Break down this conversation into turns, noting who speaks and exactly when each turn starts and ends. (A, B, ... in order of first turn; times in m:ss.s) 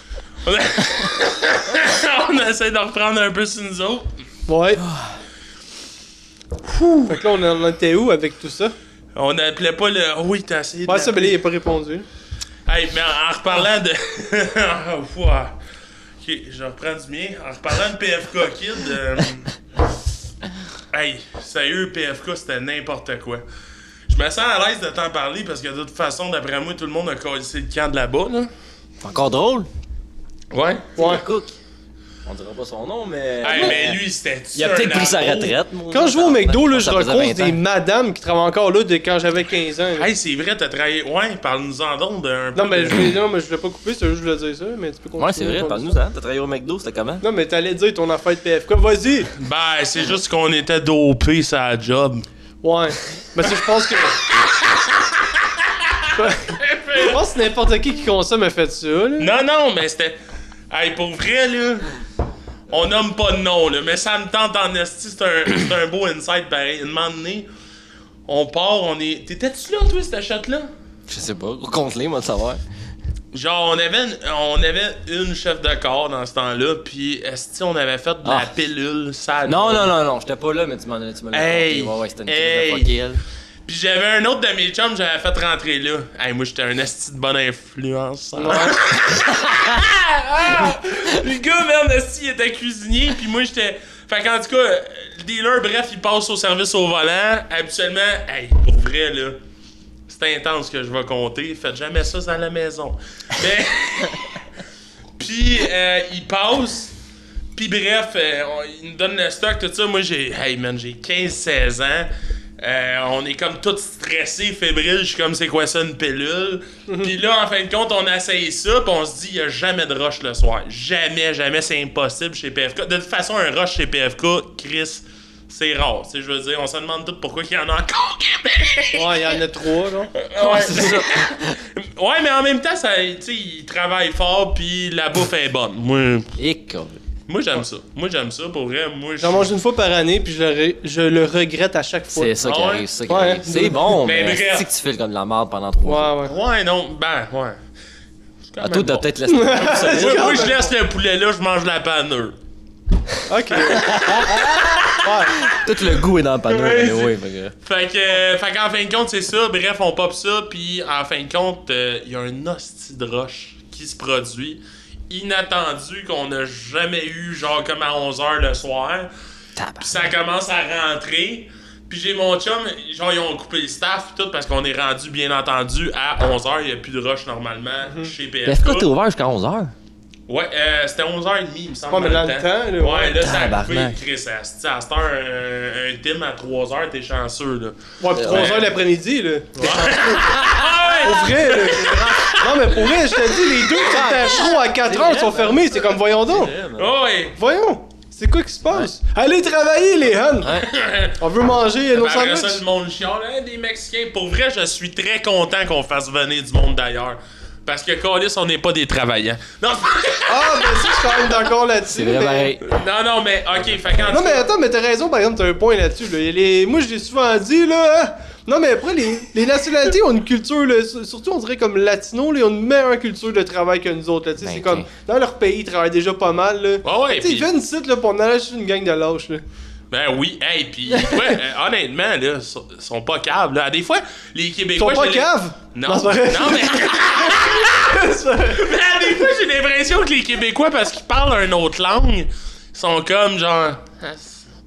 0:00.4-0:04.2 A
0:04.5-0:04.8 B
0:06.7-0:07.1 A
0:07.1-0:08.7 B
0:09.1-0:11.4 A
0:10.9-0:12.1 B
0:12.7-0:15.6 A
0:16.2-0:19.6 A
0:20.9-0:23.4 A
0:24.1-0:28.5 A
0:29.0-0:29.7 C
0:30.5-0:30.9 A
0:31.0-0:31.6 C
0:31.0-0:31.2 B
0:32.3-0:34.0 C
0:33.4-0:35.6 A
0:34.5-0:37.6 C
0:35.9-0:40.1 B
0:40.0-0:43.1 A
0:42.6-0:46.0 B
0:45.2-0:47.2 C
0:47.2-0:49.3 B
0:49.4-0:52.3 A
0:52.6-0:54.2 B
0:54.3-0:57.2 A
0:56.1-0:59.3 B
0:59.2-1:00.2 A
1:00.7-1:01.9 A
1:02.7-1:07.5 A
1:08.3-1:10.7 A
1:11.1-1:12.6 C
1:13.3-1:19.9 A
1:18.2-1:18.5 C
1:19.4-1:23.2 C
1:21.3-1:22.9 A
1:23.6-1:39.4 A
1:28.4-1:28.8 B
1:40.1-1:44.4 A
1:45.2-1:46.9 A
1:47.6-2:09.4 A
2:08.9-2:10.2 B
2:10.2-2:16.3 A
2:10.4-2:11.6 C
2:16.4-2:17.0 C
2:17.3-2:19.5 A
2:19.2-2:22.4 B
2:22.1-2:26.2 C
2:22.4-2:22.9 A
2:23.1-2:23.9 B
2:24.0-2:24.7 A
2:25.8-2:26.3 B
2:26.2-2:27.6 A
2:28.5-2:32.4 A
2:28.6-2:30.5 C
2:29.3-2:30.7 B
2:33.3-2:34.1 B
2:33.8-2:34.8 C
2:33.8-2:35.6 A
2:35.0-2:35.6 B
2:35.4-2:37.5 C
2:36.5-2:49.1 A
2:49.6-2:50.1 C
2:49.8-2:58.9 A
2:58.4-2:59.7 C
3:00.3-3:08.7 A
3:01.9-3:03.2 B
3:03.2-3:04.0 C
3:08.0-3:10.4 B
3:08.1-3:08.7 C
3:09.6-3:13.9 A
3:10.6-3:11.1 C
3:11.0-3:16.5 B
3:14.3-3:16.9 C
3:16.8-3:17.4 A
3:17.4-3:20.6 B
3:20.4-3:20.7 C
3:20.6-3:21.2 A
3:21.2-3:22.6 B
3:21.9-3:31.3 A
3:30.3-3:32.6 B
3:31.9-3:32.6 C
3:32.6-3:34.5 A
3:33.7-3:34.3 C
3:34.1-3:49.4 B
3:44.4-3:44.9 C
3:46.8-3:47.5 A
3:49.9-4:04.5 A
3:51.0-3:51.4 B
3:54.8-3:58.7 B